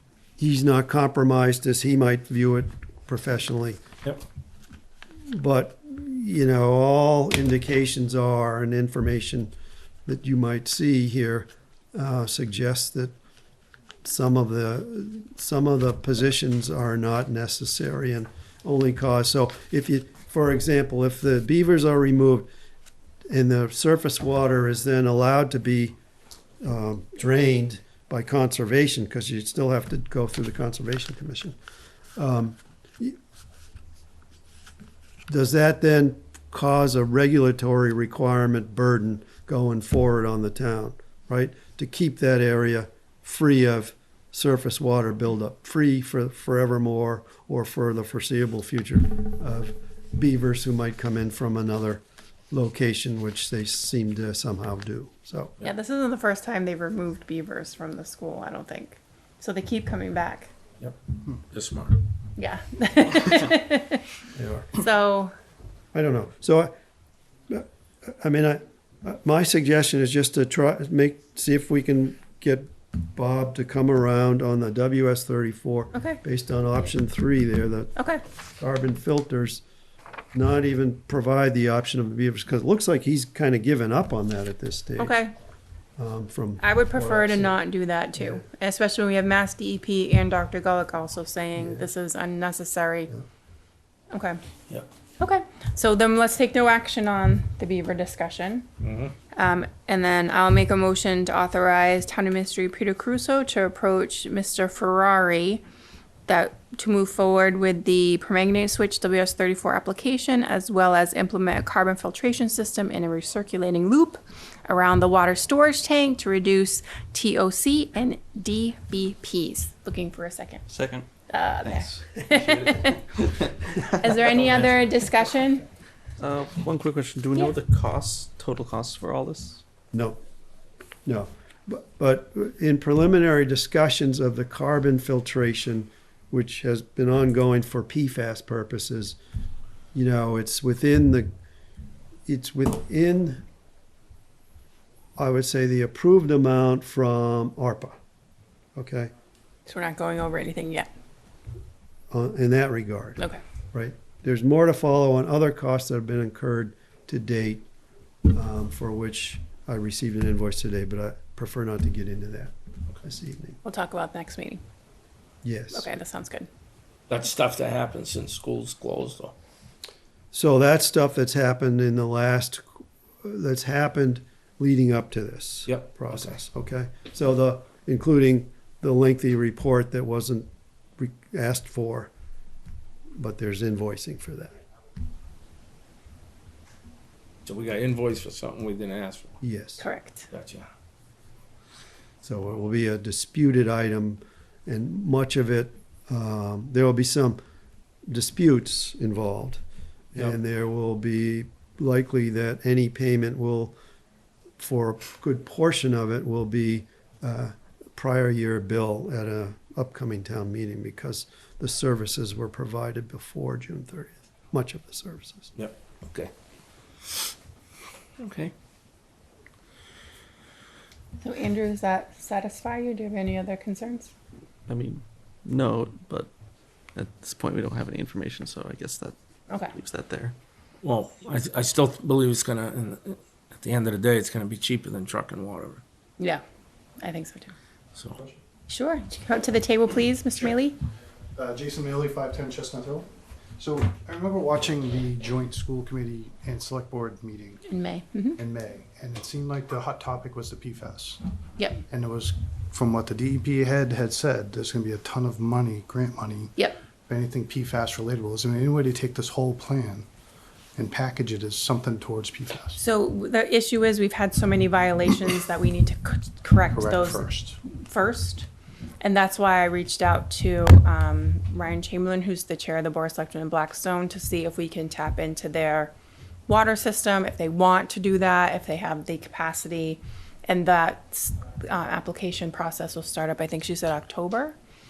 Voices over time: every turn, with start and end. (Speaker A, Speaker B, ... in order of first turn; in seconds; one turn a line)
Speaker A: 0.4-3.8
Speaker A: 5.3-9.5
Speaker A: 10.1-13.1
Speaker A: 14.0-22.5
Speaker A: 23.3-26.0
Speaker A: 26.6-31.5
Speaker A: 32.2-33.2
Speaker A: 35.3-55.5
Speaker B: 55.6-60.5
Speaker C: 61.5-62.0
Speaker B: 62.4-64.0
Speaker A: 64.3-64.7
Speaker B: 64.7-65.3
Speaker A: 65.9-66.7
Speaker A: 67.5-77.9
Speaker B: 75.9-76.2
Speaker B: 78.0-78.2
Speaker A: 78.6-79.6
Speaker A: 80.3-85.2
Speaker B: 85.0-85.3
Speaker A: 86.0-87.5
Speaker B: 86.6-93.1
Speaker B: 94.1-94.4
Speaker B: 95.2-98.7
Speaker C: 98.8-99.2
Speaker B: 99.3-105.6
Speaker B: 106.3-120.6
Speaker D: 120.7-121.1
Speaker B: 121.3-123.1
Speaker B: 123.9-125.7
Speaker D: 126.2-129.6
Speaker A: 129.9-130.2
Speaker A: 131.1-139.2
Speaker A: 139.9-141.3
Speaker A: 142.3-143.4
Speaker A: 145.2-147.9
Speaker A: 148.7-149.1
Speaker B: 149.7-150.9
Speaker A: 152.1-157.7
Speaker A: 158.3-163.6
Speaker B: 163.6-164.6
Speaker A: 165.4-165.9
Speaker B: 165.7-166.5
Speaker C: 167.1-169.3
Speaker A: 170.3-172.7
Speaker A: 173.2-182.1
Speaker C: 175.7-176.3
Speaker A: 183.2-184.6
Speaker C: 187.4-189.4
Speaker A: 189.4-189.8
Speaker B: 189.8-190.3
Speaker C: 190.3-190.7
Speaker A: 192.2-197.4
Speaker A: 198.1-199.6
Speaker A: 200.1-203.8
Speaker A: 204.6-215.5
Speaker C: 215.6-216.3
Speaker C: 217.0-217.3
Speaker C: 218.2-218.5
Speaker B: 221.2-224.1
Speaker D: 224.7-226.3
Speaker D: 226.9-229.1
Speaker D: 229.7-230.3
Speaker C: 230.8-235.8
Speaker B: 237.0-237.5
Speaker B: 238.7-240.8
Speaker E: 241.3-247.6
Speaker B: 247.7-248.4
Speaker E: 248.4-251.2
Speaker E: 251.9-256.6
Speaker E: 257.1-260.1
Speaker E: 260.8-262.8
Speaker B: 262.8-268.5
Speaker E: 266.7-267.6
Speaker B: 269.0-275.9
Speaker B: 276.5-284.6